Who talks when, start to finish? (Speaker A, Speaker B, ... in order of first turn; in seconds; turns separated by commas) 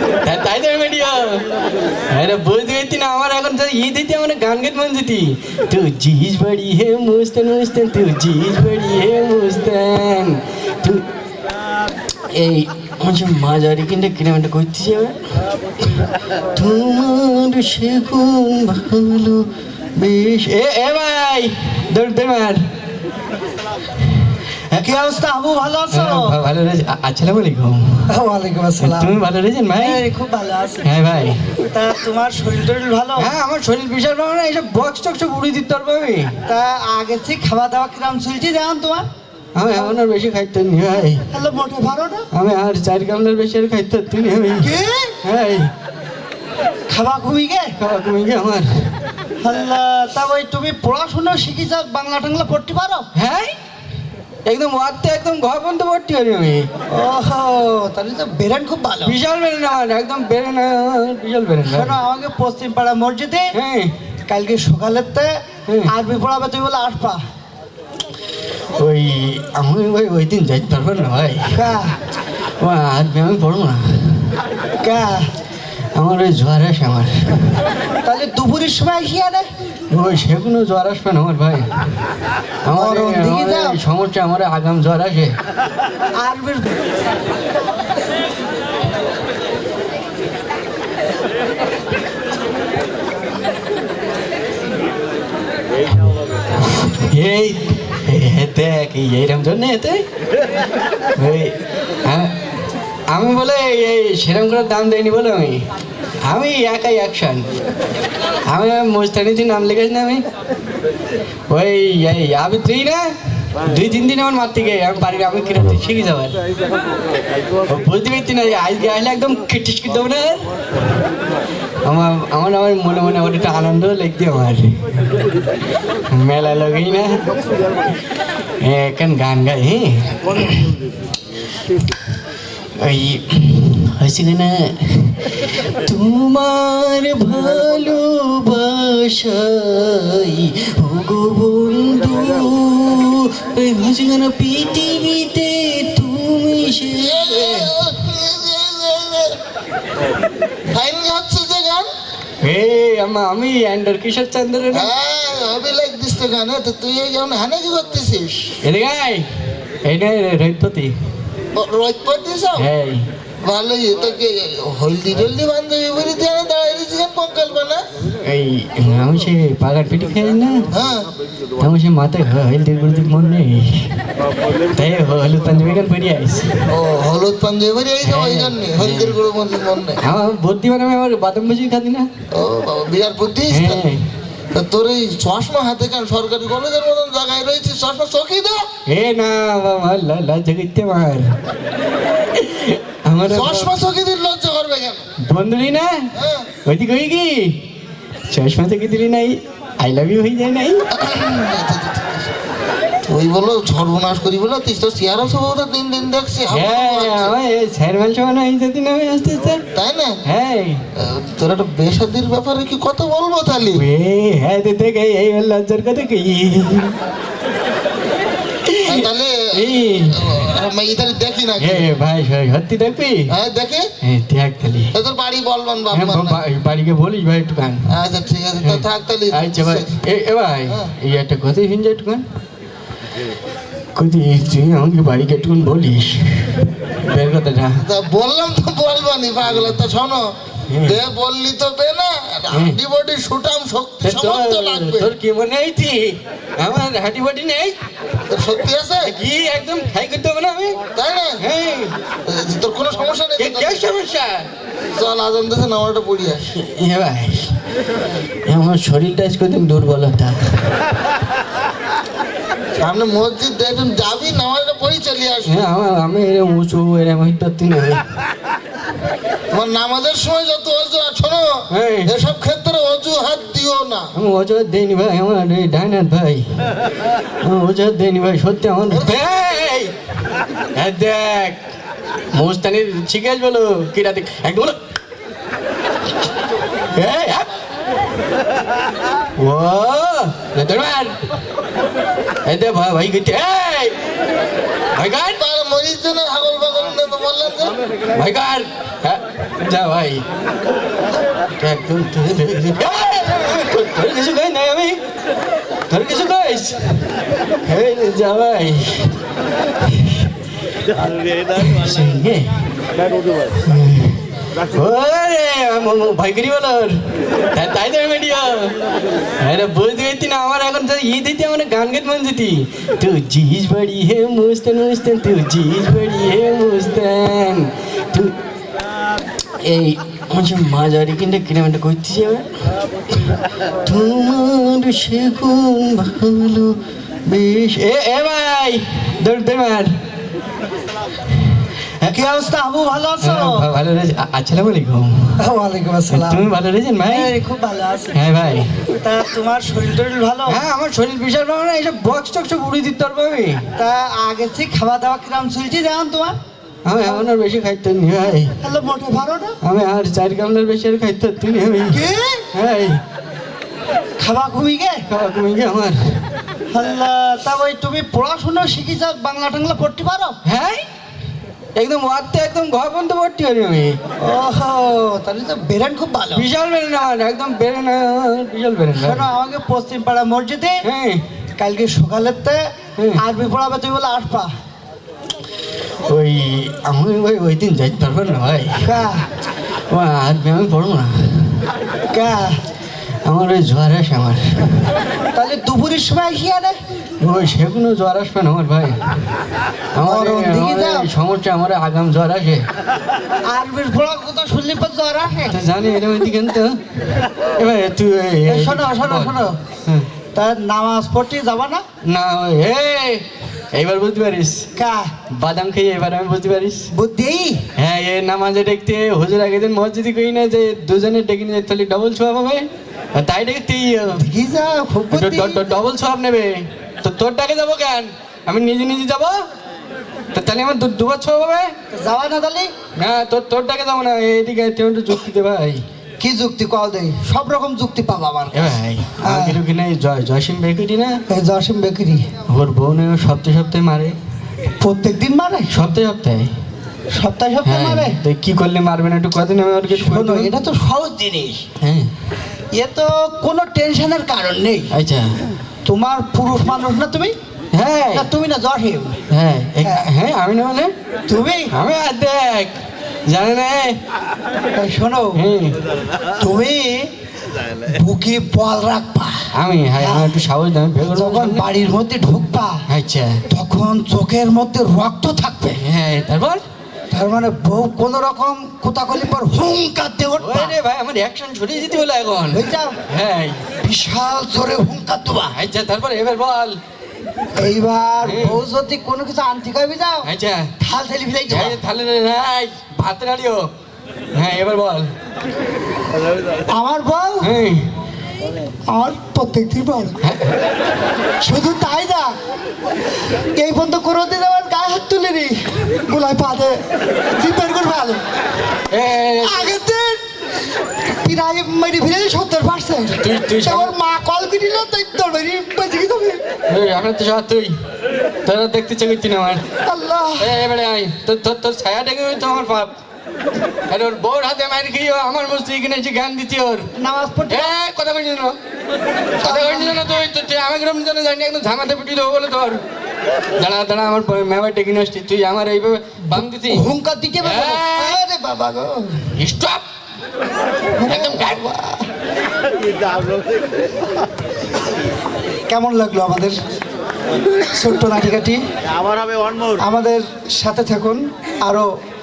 Speaker A: 0.2-1.4, Speaker A: 2.1-11.0, Speaker A: 12.3-15.2, Speaker A: 16.5-22.6, Speaker B: 24.8-26.3, Speaker A: 25.9-28.1, Speaker B: 28.1-29.2, Speaker A: 28.8-30.0, Speaker B: 29.8-30.9, Speaker A: 30.8-31.5, Speaker B: 31.7-33.3, Speaker A: 33.2-36.3, Speaker B: 36.5-39.0, Speaker A: 39.5-41.2, Speaker B: 39.7-40.0, Speaker B: 41.3-42.3, Speaker A: 42.3-44.7, Speaker B: 44.6-45.2, Speaker A: 45.2-45.7, Speaker B: 46.9-47.7, Speaker A: 47.8-48.9, Speaker B: 49.4-53.1, Speaker A: 53.1-53.5, Speaker A: 54.4-56.7, Speaker B: 56.9-59.2, Speaker A: 59.0-62.0, Speaker B: 61.6-63.5, Speaker A: 63.5-63.9, Speaker B: 64.3-65.3, Speaker B: 65.8-67.2, Speaker A: 68.8-71.5, Speaker B: 71.5-72.0, Speaker A: 72.6-74.3, Speaker B: 74.8-75.2, Speaker A: 75.9-77.6, Speaker B: 78.0-79.5, Speaker A: 79.9-81.7, Speaker A: 82.6-85.3, Speaker B: 82.7-83.8, Speaker B: 86.2-86.7, Speaker A: 96.6-100.0, Speaker A: 101.2-102.3, Speaker A: 103.1-105.6, Speaker A: 106.2-107.5, Speaker A: 108.5-110.2, Speaker A: 111.5-116.3, Speaker A: 117.7-120.5, Speaker A: 121.8-124.8, Speaker A: 126.1-127.2, Speaker A: 128.6-130.6, Speaker A: 132.8-147.8, Speaker C: 147.0-149.4, Speaker C: 150.7-151.9, Speaker A: 152.4-154.9, Speaker C: 154.7-158.6, Speaker A: 158.6-159.3, Speaker A: 159.8-160.9, Speaker C: 161.5-162.7, Speaker A: 162.6-163.0, Speaker C: 163.4-167.8, Speaker A: 168.2-170.7, Speaker C: 170.7-171.1, Speaker A: 171.6-174.0, Speaker A: 174.7-176.6, Speaker C: 176.7-180.0, Speaker A: 178.0-179.2, Speaker A: 180.0-182.1, Speaker C: 182.3-183.8, Speaker A: 183.5-184.1, Speaker C: 184.5-188.7, Speaker A: 188.9-191.3, Speaker A: 192.3-193.7, Speaker C: 193.3-195.0, Speaker A: 195.2-196.1, Speaker C: 196.2-196.5, Speaker A: 196.7-197.6, Speaker A: 198.3-200.8, Speaker C: 200.9-202.3, Speaker C: 203.1-207.3, Speaker A: 206.5-209.6, Speaker C: 209.7-210.2, Speaker A: 210.2-210.8, Speaker C: 210.9-213.8, Speaker A: 213.7-216.9, Speaker A: 218.6-220.5, Speaker C: 218.9-219.5, Speaker C: 220.1-221.9, Speaker A: 221.6-223.3, Speaker C: 223.3-223.9, Speaker A: 224.0-224.9, Speaker C: 224.9-226.4, Speaker A: 225.9-227.9, Speaker C: 227.9-230.0, Speaker A: 228.6-232.2, Speaker A: 233.9-237.8, Speaker C: 237.8-245.1, Speaker A: 240.7-241.0, Speaker A: 242.5-242.8, Speaker A: 244.0-247.8, Speaker C: 248.3-249.1, Speaker A: 249.0-250.8, Speaker C: 250.9-251.4, Speaker A: 251.4-251.9, Speaker C: 252.2-253.9, Speaker A: 253.4-254.5, Speaker C: 254.9-256.5, Speaker A: 256.5-257.6, Speaker A: 258.4-260.4, Speaker C: 262.8-265.6, Speaker A: 265.4-268.0, Speaker C: 269.5-274.1, Speaker A: 271.7-272.2, Speaker A: 274.1-276.4, Speaker A: 277.4-279.9, Speaker C: 278.9-279.3, Speaker A: 280.7-281.6, Speaker A: 282.3-284.8, Speaker A: 286.9-287.5, Speaker A: 289.4-291.2, Speaker A: 292.4-293.9, Speaker A: 294.9-295.4, Speaker C: 295.4-297.8, Speaker A: 298.1-300.2, Speaker A: 301.6-305.0, Speaker A: 305.9-306.9, Speaker A: 307.6-309.1, Speaker A: 309.8-310.3, Speaker A: 311.5-312.6, Speaker A: 313.6-314.2, Speaker A: 314.7-317.0, Speaker A: 317.5-318.7, Speaker A: 319.4-328.3, Speaker A: 329.6-332.5, Speaker A: 333.8-339.9, Speaker B: 342.1-343.6, Speaker A: 343.2-345.4, Speaker B: 345.4-346.5, Speaker A: 346.1-347.3, Speaker B: 347.1-348.2, Speaker A: 348.1-348.8, Speaker B: 349.0-350.6, Speaker A: 350.5-353.6, Speaker B: 353.8-356.3, Speaker A: 356.8-358.6, Speaker B: 357.0-357.3, Speaker B: 358.6-359.6, Speaker A: 359.6-362.0, Speaker B: 361.9-362.5, Speaker A: 362.5-363.0, Speaker B: 364.2-365.0, Speaker A: 365.1-366.2, Speaker B: 366.7-370.4, Speaker A: 370.4-370.8, Speaker A: 371.7-374.0, Speaker B: 374.2-376.5, Speaker A: 376.3-379.3, Speaker B: 378.9-380.8, Speaker A: 380.8-381.2, Speaker B: 381.6-382.6, Speaker B: 383.1-384.5, Speaker A: 386.1-388.8, Speaker B: 388.8-389.3, Speaker A: 389.9-391.6, Speaker B: 392.1-392.6, Speaker A: 393.2-394.9, Speaker B: 395.3-396.8, Speaker A: 397.2-399.0, Speaker A: 399.9-402.6, Speaker B: 400.0-401.1, Speaker B: 403.5-405.6, Speaker A: 405.5-406.8, Speaker A: 407.6-410.1, Speaker B: 408.4-409.6, Speaker B: 410.3-411.8, Speaker A: 412.0-414.6, Speaker B: 414.8-415.1, Speaker A: 415.3-416.9, Speaker B: 416.9-417.7, Speaker A: 417.8-424.2, Speaker B: 424.1-425.6, Speaker A: 425.1-429.4, Speaker A: 430.3-431.7, Speaker B: 431.9-432.7, Speaker A: 433.0-435.8, Speaker B: 436.2-439.6, Speaker A: 438.5-441.2, Speaker B: 441.3-442.2, Speaker A: 442.5-444.1, Speaker B: 444.8-445.7, Speaker A: 445.7-446.5, Speaker B: 447.1-448.2, Speaker A: 447.6-450.5, Speaker B: 449.9-451.6, Speaker A: 451.8-452.1, Speaker B: 452.7-454.9, Speaker A: 454.9-455.4, Speaker B: 455.8-457.3, Speaker A: 457.7-458.3, Speaker B: 458.1-459.2, Speaker A: 459.3-460.9, Speaker B: 459.8-460.1, Speaker B: 461.3-461.7, Speaker A: 461.7-462.7, Speaker A: 463.3-464.0, Speaker B: 464.8-465.4, Speaker A: 465.3-465.8, Speaker B: 466.4-467.1, Speaker B: 467.9-470.4, Speaker A: 469.5-471.6, Speaker B: 471.0-472.8, Speaker A: 472.9-473.4, Speaker B: 473.5-475.8, Speaker A: 475.7-476.6, Speaker B: 477.1-480.8, Speaker A: 480.4-483.6, Speaker B: 482.5-482.9, Speaker B: 483.8-485.5, Speaker A: 485.5-486.8, Speaker B: 487.6-491.8, Speaker A: 488.2-488.6, Speaker A: 490.2-490.7, Speaker A: 491.5-493.7, Speaker A: 494.3-495.1, Speaker B: 496.7-497.6, Speaker A: 497.4-497.9, Speaker B: 498.9-500.2, Speaker A: 500.2-500.5, Speaker B: 501.4-502.3, Speaker B: 503.6-506.8, Speaker B: 507.4-508.2, Speaker A: 508.9-509.7, Speaker B: 509.4-510.2, Speaker B: 511.2-516.4, Speaker A: 513.2-513.9, Speaker A: 516.7-517.7, Speaker A: 518.4-519.6, Speaker B: 519.9-520.6, Speaker A: 520.4-522.9, Speaker A: 523.9-526.9, Speaker B: 527.0-527.7, Speaker A: 527.5-528.6, Speaker B: 529.4-530.1, Speaker A: 529.4-532.8, Speaker A: 533.6-536.9, Speaker B: 536.3-539.3, Speaker A: 537.4-538.2, Speaker A: 539.4-539.8, Speaker B: 541.0-542.1, Speaker A: 541.1-541.6, Speaker B: 545.7-546.6, Speaker B: 547.7-548.6, Speaker B: 549.8-551.9